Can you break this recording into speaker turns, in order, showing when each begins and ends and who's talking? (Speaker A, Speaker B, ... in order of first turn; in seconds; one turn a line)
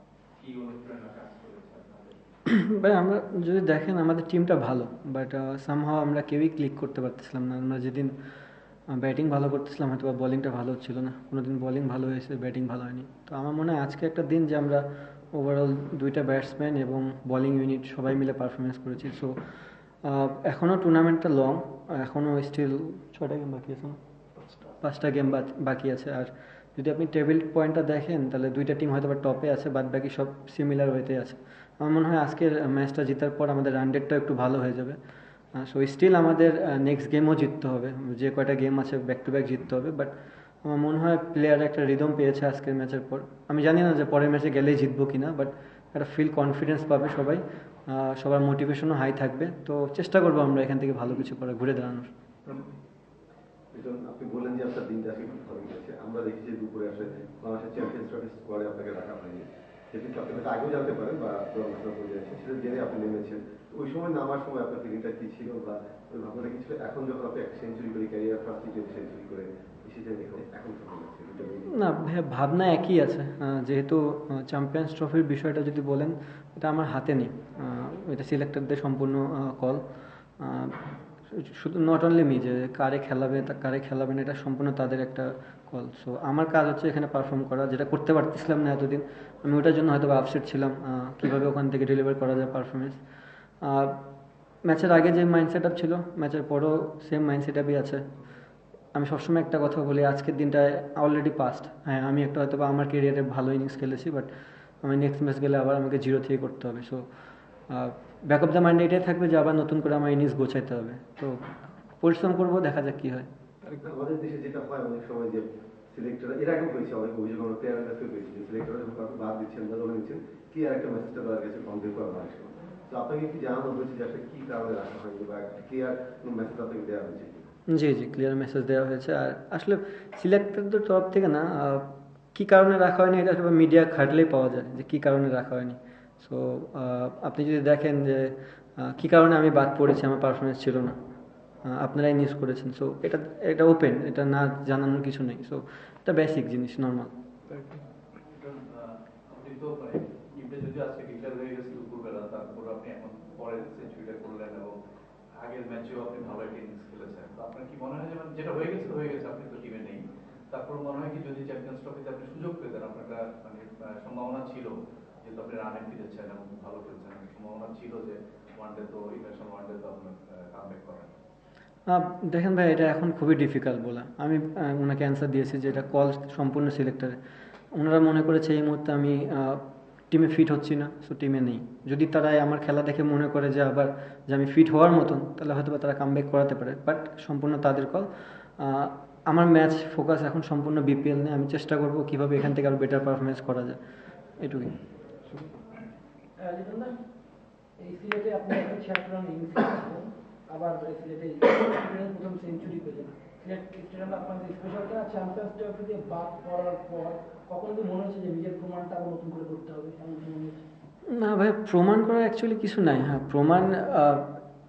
Speaker A: 0.4-2.2
Speaker B: 2.6-8.1
Speaker B: 8.9-19.4
Speaker B: 20.1-24.0
Speaker B: 24.8-35.0
Speaker B: 35.6-40.1
Speaker B: 40.6-52.1
Speaker C: 53.7-71.7
Speaker B: 71.7-79.8
Speaker B: 80.4-80.8
Speaker B: 81.3-93.0
Speaker B: 93.6-94.0
Speaker B: 94.7-98.0
Speaker B: 99.0-104.3
Speaker B: 104.8-107.0
Speaker B: 107.7-111.4
Speaker B: 112.0-113.3
Speaker C: 113.8-127.5
Speaker B: 127.7-141.0
Speaker B: 141.7-147.1
Speaker A: 148.3-154.8
Speaker A: 155.4-171.1
Speaker B: 171.9-177.2
Speaker B: 177.8-193.8
Speaker B: 194.4-194.7
Speaker D: 196.4-196.9
Speaker D: 197.8-210.6
Speaker B: 211.1-214.3